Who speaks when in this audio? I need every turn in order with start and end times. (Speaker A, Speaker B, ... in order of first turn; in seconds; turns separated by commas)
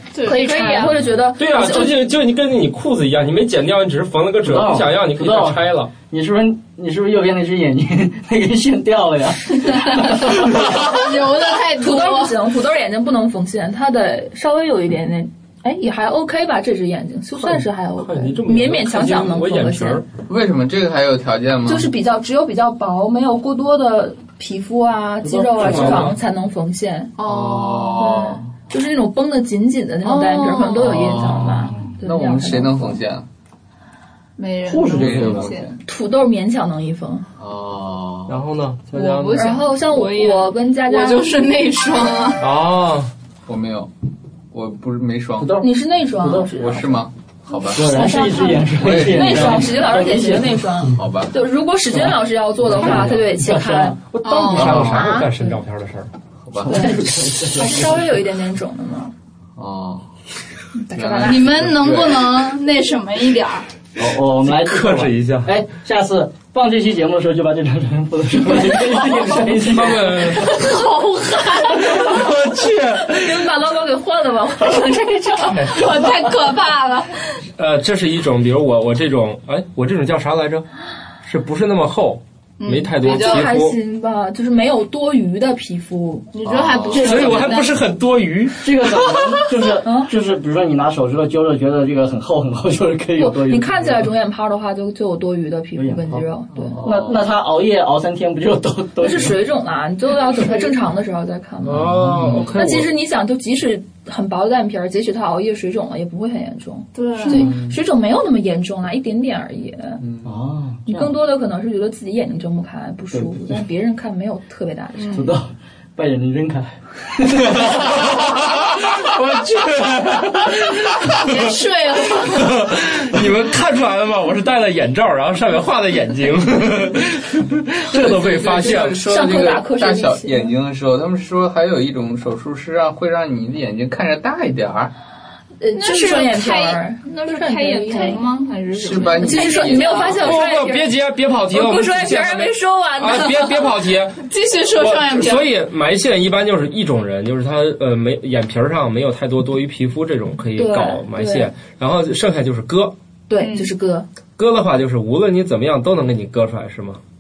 Speaker A: 0.1-1.0, Speaker B: 0.2-2.0, Speaker C: 1.4-5.9, Speaker D: 4.4-10.6, Speaker A: 9.7-12.4, Speaker B: 10.6-20.0, Speaker C: 17.4-20.1, Speaker E: 20.3-21.9, Speaker B: 21.7-27.1, Speaker D: 25.2-26.2, Speaker C: 25.6-26.2, Speaker A: 27.2-28.2, Speaker E: 27.2-28.4, Speaker B: 28.0-33.0, Speaker A: 30.0-31.0, Speaker E: 30.7-33.3, Speaker A: 34.4-35.8, Speaker D: 34.6-35.5, Speaker E: 34.9-35.8, Speaker B: 35.9-37.3, Speaker E: 37.4-38.4, Speaker C: 38.3-39.6, Speaker A: 38.9-42.4, Speaker B: 39.3-41.3, Speaker C: 42.4-43.1, Speaker E: 43.5-43.9, Speaker E: 44.5-45.6, Speaker D: 45.4-46.5, Speaker B: 45.6-47.0, Speaker E: 46.6-47.9, Speaker D: 47.6-50.8, Speaker B: 47.8-55.6, Speaker E: 48.7-49.7, Speaker E: 50.9-51.3, Speaker D: 52.7-54.0, Speaker C: 52.8-53.1, Speaker C: 54.1-56.1, Speaker A: 54.2-54.9, Speaker E: 54.5-55.1, Speaker E: 56.4-56.9, Speaker D: 56.6-58.0, Speaker B: 56.7-59.1, Speaker E: 59.6-60.1, Speaker B: 60.8-61.5, Speaker E: 60.9-62.5, Speaker A: 61.2-63.7, Speaker D: 64.0-70.6, Speaker C: 64.5-65.5, Speaker C: 69.6-70.6, Speaker A: 70.4-72.2, Speaker B: 71.7-72.2, Speaker C: 71.8-73.5, Speaker B: 73.0-75.9, Speaker C: 75.5-76.0, Speaker A: 75.5-77.4, Speaker C: 77.6-80.7, Speaker C: 81.2-83.8, Speaker A: 82.6-83.5, Speaker B: 83.0-86.3, Speaker A: 86.3-87.8, Speaker E: 86.5-87.2, Speaker D: 86.9-87.7, Speaker C: 86.9-88.6, Speaker D: 88.6-94.0, Speaker B: 89.8-90.1, Speaker B: 93.2-96.8, Speaker D: 95.8-96.2, Speaker E: 96.6-97.3, Speaker D: 96.8-99.4, Speaker B: 99.0-101.9, Speaker C: 101.7-102.9, Speaker D: 101.7-102.5, Speaker E: 102.2-102.5, Speaker B: 102.5-110.0, Speaker A: 107.0-107.5, Speaker E: 110.0-110.3, Speaker D: 110.2-111.2, Speaker B: 110.9-115.4, Speaker D: 113.1-113.5, Speaker A: 115.0-115.3, Speaker D: 115.1-118.0, Speaker C: 117.5-121.6, Speaker A: 121.0-122.6, Speaker C: 122.2-129.1, Speaker E: 127.9-134.9, Speaker B: 128.6-130.5, Speaker B: 135.6-138.2, Speaker A: 135.8-140.5, Speaker E: 138.7-140.4, Speaker B: 139.2-141.0, Speaker C: 140.1-152.9, Speaker B: 141.5-143.4, Speaker A: 143.0-143.7, Speaker A: 144.2-145.5, Speaker B: 150.6-151.5, Speaker B: 153.3-154.1, Speaker A: 153.4-153.7, Speaker C: 154.4-157.0